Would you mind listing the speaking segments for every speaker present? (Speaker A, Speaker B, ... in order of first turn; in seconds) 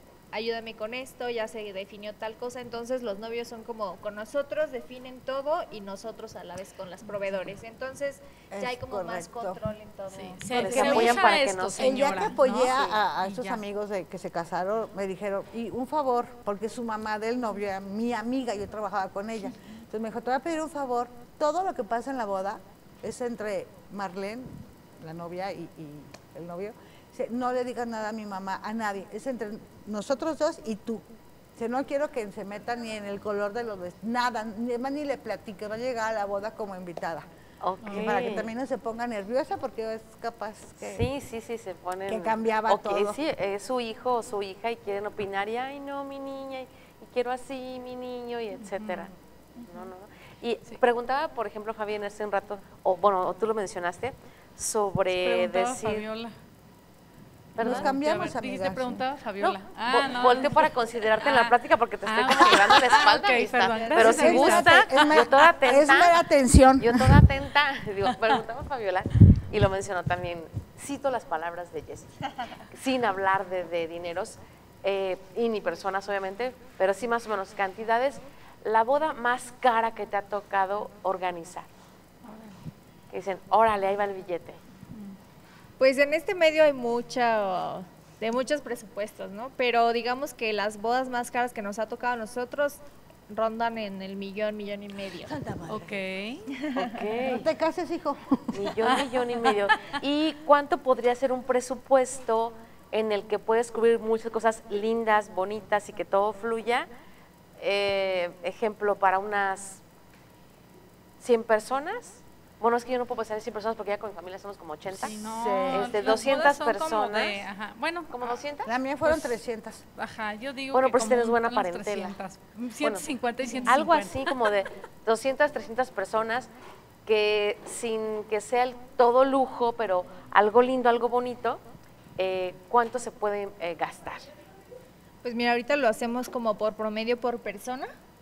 Speaker A: 0.3-11.2, 63.0-64.4, 85.8-95.3, 96.6-96.9, 135.2-137.9
Speaker B: 8.5-9.6, 10.5-31.1, 31.6-37.3, 37.9-41.1, 42.1-43.2, 57.6-59.0, 64.0-67.2, 95.3-96.0, 97.2-98.9, 115.1-116.5, 118.7-119.8
Speaker C: 10.1-13.6, 37.8-38.2, 48.6-49.1, 55.1-56.3, 57.6-60.7, 61.2-64.7, 82.2-82.6, 95.7-96.5, 114.9-118.4, 119.0-119.4, 120.0-124.3
Speaker D: 10.5-12.9, 37.6-38.5, 40.8-49.1, 49.7-56.0, 57.5-57.9, 59.4-66.2, 66.8-72.2, 72.7-81.7, 83.1-84.6, 96.7-97.5, 98.5-106.9, 107.6-109.8, 111.2-115.1, 115.7-117.5, 118.1-118.7, 120.7-122.2, 123.7-126.5, 127.1-131.6, 132.2-134.3